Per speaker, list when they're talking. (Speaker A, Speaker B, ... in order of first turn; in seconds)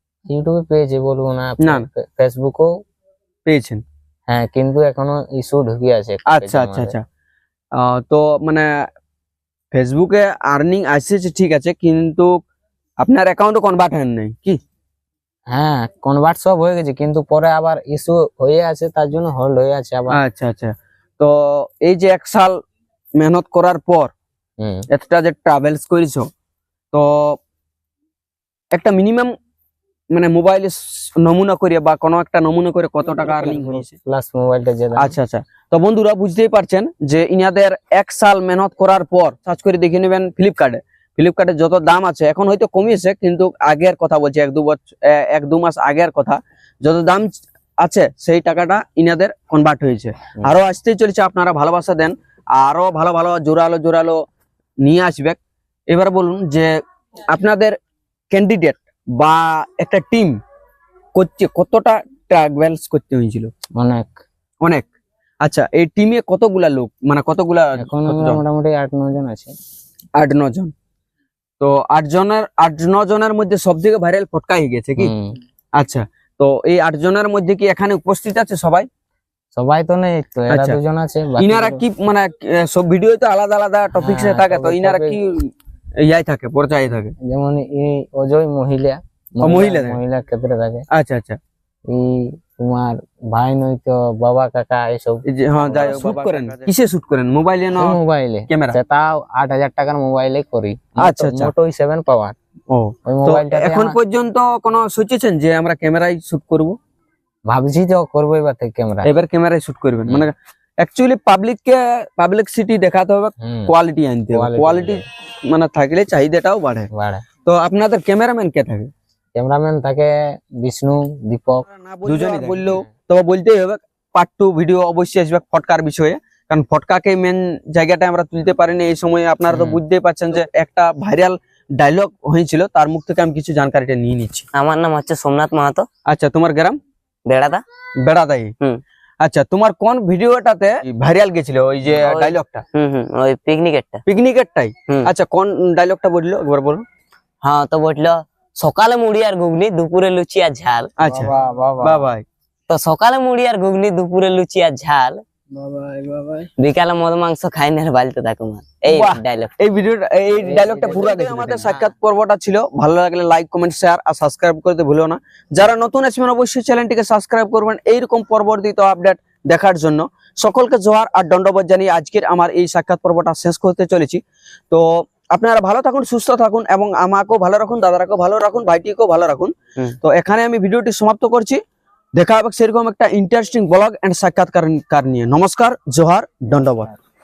Speaker A: 0.3-2.7, 4.3-6.9, 15.5-20.2, 24.6-24.9, 33.1-35.1, 63.8-64.2, 67.8-69.5, 75.0-75.4, 79.5-81.8, 83.9-85.2, 87.2-90.9, 91.9-96.7, 97.8-102.3, 103.1-104.0, 107.5-109.1, 113.4-113.7, 114.3-115.0, 116.9-117.2, 119.3-122.9, 151.1-152.1, 155.6-156.4, 160.4-161.9
Speaker B: 1.6-1.9, 3.5-3.8, 6.3-7.0, 7.8-8.7, 9.7-12.3, 13.0-14.6, 20.1-22.6, 23.1-24.1, 24.9-26.3, 26.9-27.4, 28.7-29.3, 30.1-33.9, 35.0-54.2, 54.8-55.4, 55.9-57.8, 58.3-60.4, 61.1-63.5, 64.6-64.9, 65.4-68.4, 70.2-70.7, 71.6-75.1, 75.8-78.9, 80.5-80.8, 81.4-85.5, 86.0-87.1, 89.4-90.0, 90.9-91.4, 95.3-98.0, 98.5-98.8, 101.0-101.5, 102.7-106.8, 109.0-116.9, 117.4-118.9, 121.7-134.4, 136.1-136.8, 138.0-138.5, 139.2-142.6, 144.1-146.8, 151.0-152.2, 158.9-181.6, 182.1-186.9
Speaker C: 129.5-129.8, 134.5-135.9, 137.2-137.6, 141.9-144.0, 147.4-150.9, 152.7-155.2, 156.6-159.6